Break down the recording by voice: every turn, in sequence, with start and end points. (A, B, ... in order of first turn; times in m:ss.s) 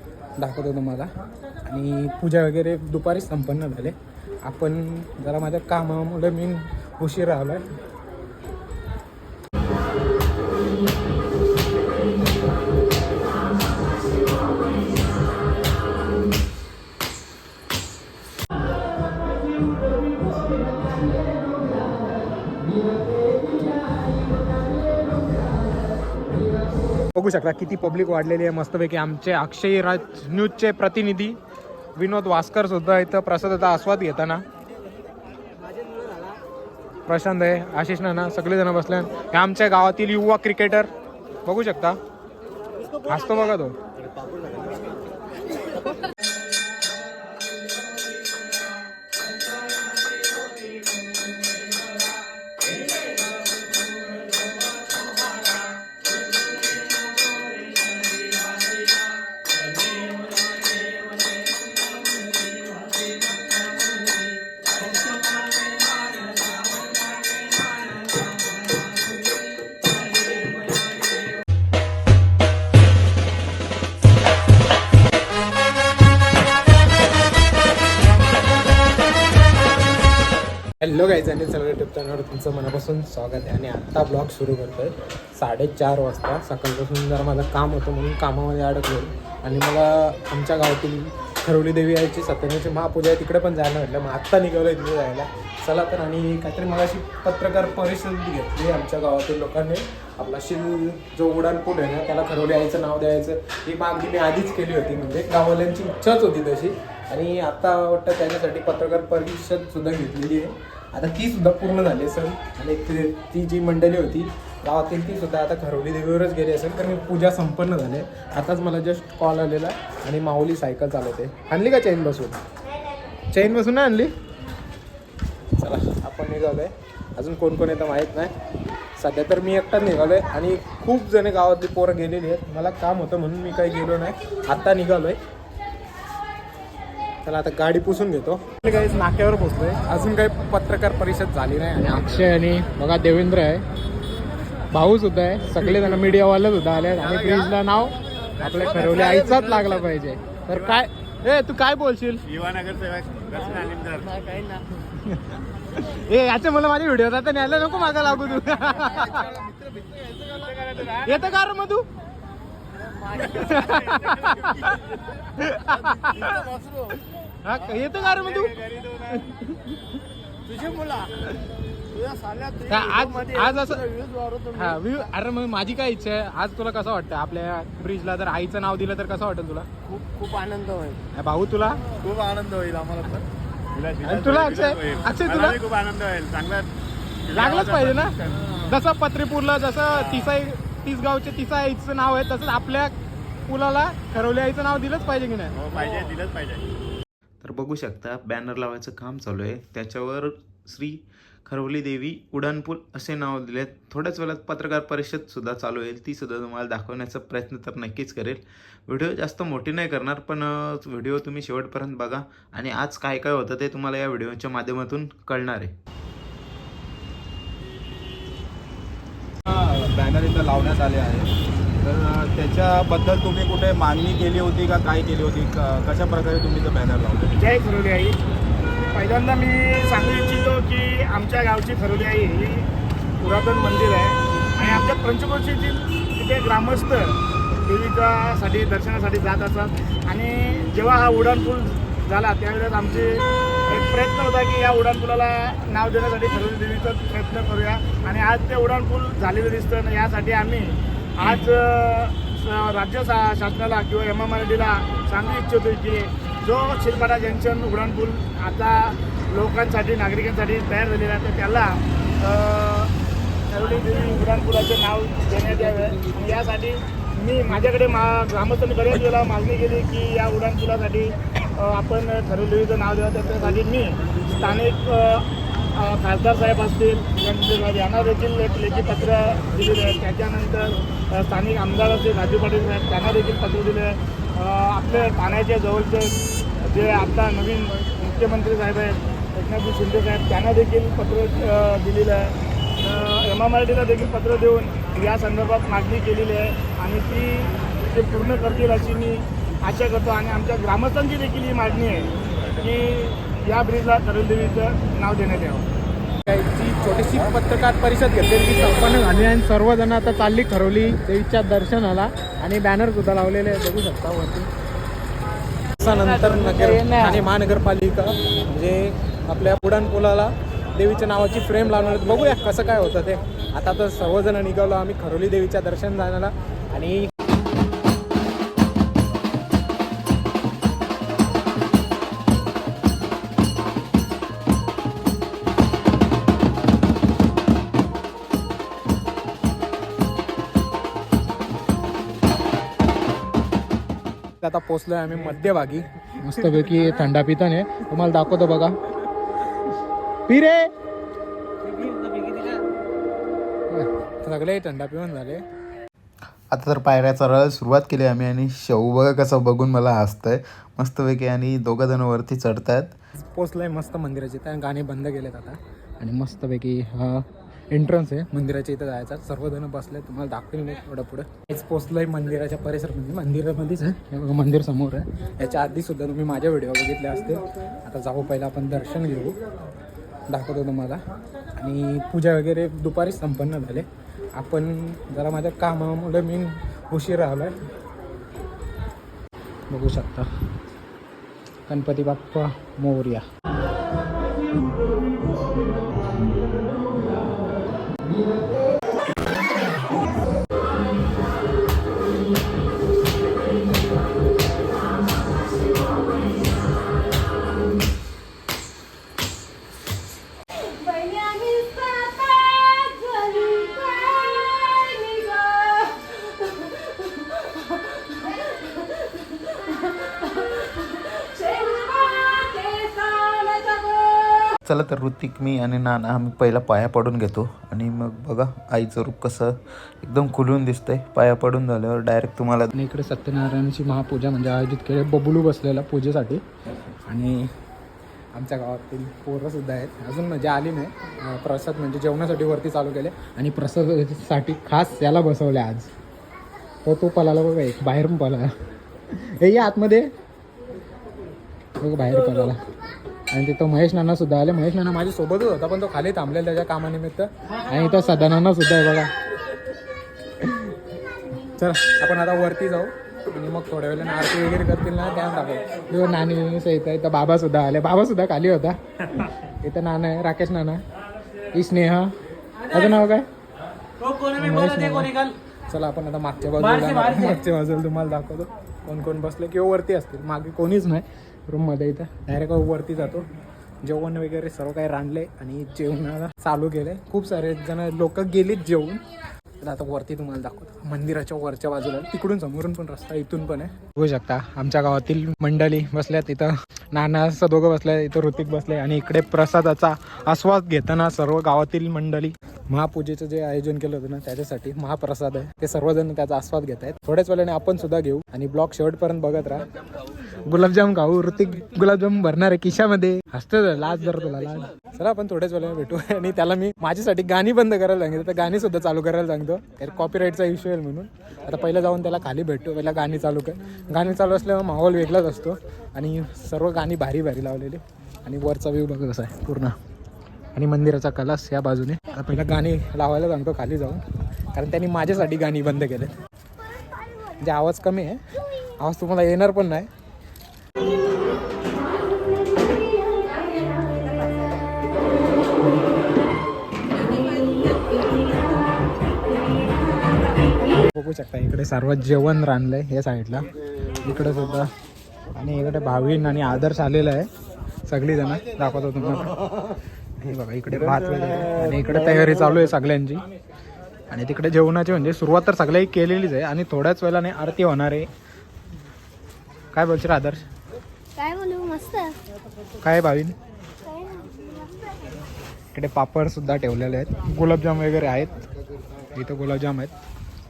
0:00.4-0:01.1 A
0:01.6-0:07.6 A
0:27.1-0:31.4 A
0:32.0-0:34.4 A
0:37.1-0:40.9 A
0:41.4-0:42.0 A
0:43.1-0:43.7 A
1:20.8-2:02.4 A
2:03.3-2:04.1 A
2:05.6-2:08.3 A
2:09.0-2:15.2 A
2:17.2-2:23.6 A
2:24.7-2:32.2 A
2:32.9-2:33.9 B
2:34.8-2:39.4 A
2:40.8-2:41.8 A
2:43.2-2:46.5 A
2:47.4-2:49.8 A
2:52.6-2:53.9 A
2:54.5-2:59.7 A
3:01.1-3:01.8 A
3:04.0-3:05.6 A
3:04.4-3:04.6 C
3:05.9-3:06.6 B
3:07.3-3:12.9 A
3:13.4-3:15.6 A
3:17.4-3:35.7 D
3:39.4-3:47.3 C
3:47.3-3:48.2 E
3:48.9-3:52.7 E
3:53.2-4:22.9 E
4:23.5-5:05.7 E
5:06.2-5:14.5 A
5:15.8-5:27.1 A
5:44.4-5:48.7 A
5:50.3-5:50.7 A
5:51.9-5:52.3 B
5:53.7-5:55.4 A
5:56.5-6:02.9 D
6:03.2-6:19.4 A
6:20.3-6:21.0 A
6:21.6-6:27.5 A
6:29.7-6:30.3 A
6:31.7-6:33.2 A
6:50.6-6:57.6 F
6:58.3-7:03.8 F
7:04.6-7:12.7 D
7:12.7-7:16.4 A
7:17.1-7:17.5 A
7:18.3-7:25.9 A
7:26.8-7:28.5 A
7:29.1-7:30.1 A
7:31.8-7:32.6 A
7:33.3-7:39.1 A
7:40.4-7:40.7 A
7:41.4-7:50.8 A
7:51.5-7:52.1 A
7:52.7-7:53.3 A
7:54.2-8:03.3 A
8:03.8-8:09.0 A
8:09.6-8:29.7 A
8:30.4-8:49.7 A
8:50.5-8:54.0 A
8:54.5-8:56.1 A
8:57.4-8:59.9 A
9:10.8-9:13.4 A
9:14.0-9:14.7 A
9:15.4-9:17.3 A
9:17.9-9:19.3 A
9:20.2-9:23.2 A
9:24.1-9:28.1 A
9:29.7-9:30.4 A
9:31.2-9:32.2 F
9:32.8-9:33.3 A
9:33.9-9:34.7 F
9:35.7-9:38.4 A
9:39.1-9:39.9 A